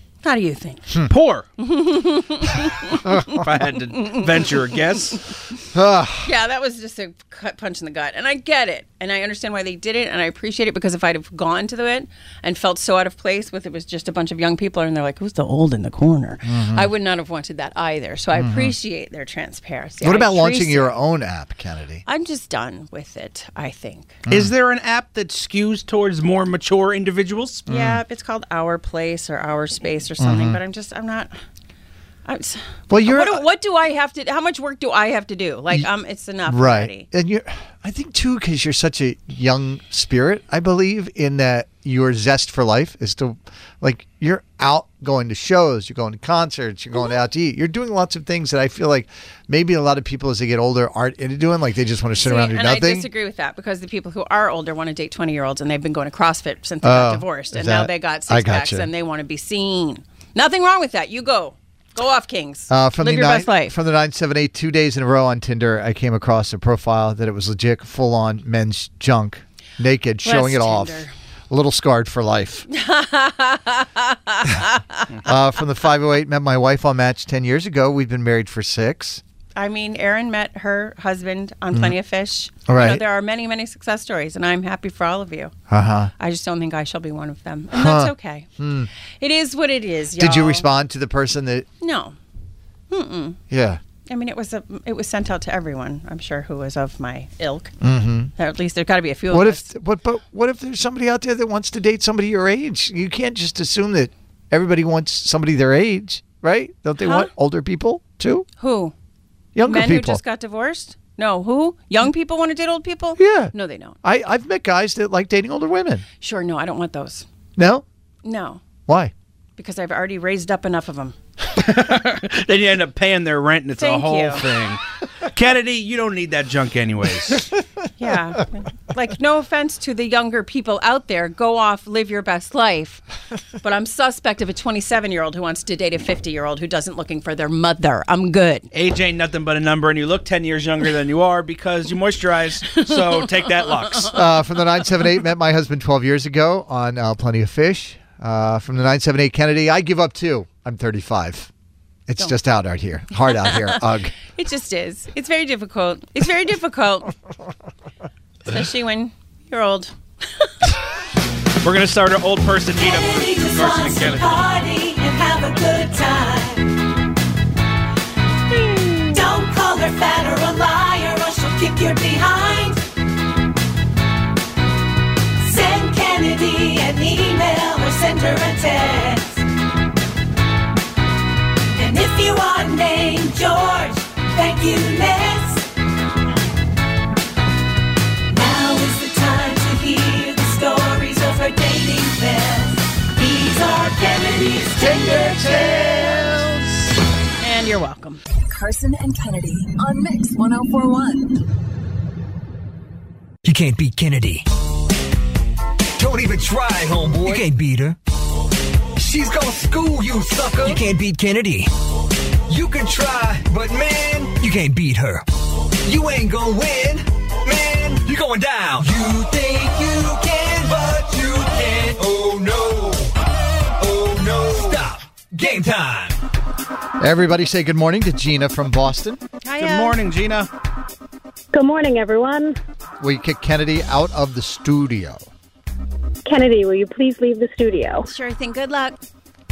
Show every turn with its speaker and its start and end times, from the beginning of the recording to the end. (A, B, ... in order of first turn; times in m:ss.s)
0:00.2-0:00.9 A
0:01.1-0:01.4 B
0:01.6-0:03.4 A
0:03.3-0:05.2 B
0:04.0-0:04.3 A
0:05.7-0:06.3 C
0:06.2-0:21.0 A
0:16.4-0:16.9 C
0:18.3-0:18.7 C
0:20.0-0:22.0 C
0:22.0-0:24.2 A
0:24.2-0:24.5 C
0:24.3-0:27.6 B
0:27.7-0:28.0 C
0:27.7-0:31.3 A
0:30.2-0:30.6 C
0:32.2-0:37.1 A
0:32.9-0:33.4 C
0:36.4-0:53.1 C
0:52.2-1:03.7 A
0:56.8-0:58.9 C
1:02.7-1:12.6 C
1:10.2-1:11.1 A
1:12.7-1:15.0 A
1:15.2-1:19.2 C
1:19.6-1:25.5 A
1:22.7-1:23.0 C
1:25.7-1:26.1 C
1:26.2-1:28.5 A
1:27.7-1:28.9 C
1:29.2-1:30.6 A
1:30.2-1:31.7 C
1:31.8-1:32.2 A
1:32.9-1:33.4 A
1:33.5-1:33.8 C
1:34.1-1:37.7 A
1:37.8-1:38.3 C
1:38.4-1:39.7 A
1:39.3-1:48.5 C
1:47.0-1:47.3 A
1:48.6-1:48.9 A
1:49.5-1:50.2 C
1:49.6-1:54.0 A
1:53.2-1:56.0 C
1:56.2-1:57.2 A
1:57.6-1:57.8 C
1:58.2-1:58.6 A
1:58.9-1:59.1 C
1:59.6-2:01.2 A
2:01.6-2:07.4 B
2:03.8-2:04.4 A
2:08.0-2:13.0 A
2:13.6-2:18.7 A
2:18.7-2:24.1 B
2:22.8-2:24.1 A
2:24.1-2:31.5 C
2:32.1-2:34.1 C
2:33.3-2:37.1 A
2:38.4-2:40.5 A
2:41.6-2:44.4 B
2:42.8-2:46.6 D
2:48.5-2:49.1 A
2:49.1-2:52.8 D
2:55.4-2:59.4 D
3:01.8-3:05.6 D
3:08.3-3:16.3 D
3:17.4-3:18.2 A
3:18.5-3:21.4 E
3:23.4-3:24.5 F
3:26.0-3:28.0 F
3:29.0-3:31.7 F
3:32.5-3:43.2 F
3:43.8-3:46.2 F
3:47.0-3:49.2 C
3:49.4-3:50.0 A
3:49.6-3:50.5 B
3:51.5-3:52.6 G
3:53.0-3:55.3 C
3:56.2-3:58.0 G
3:58.0-3:59.0 A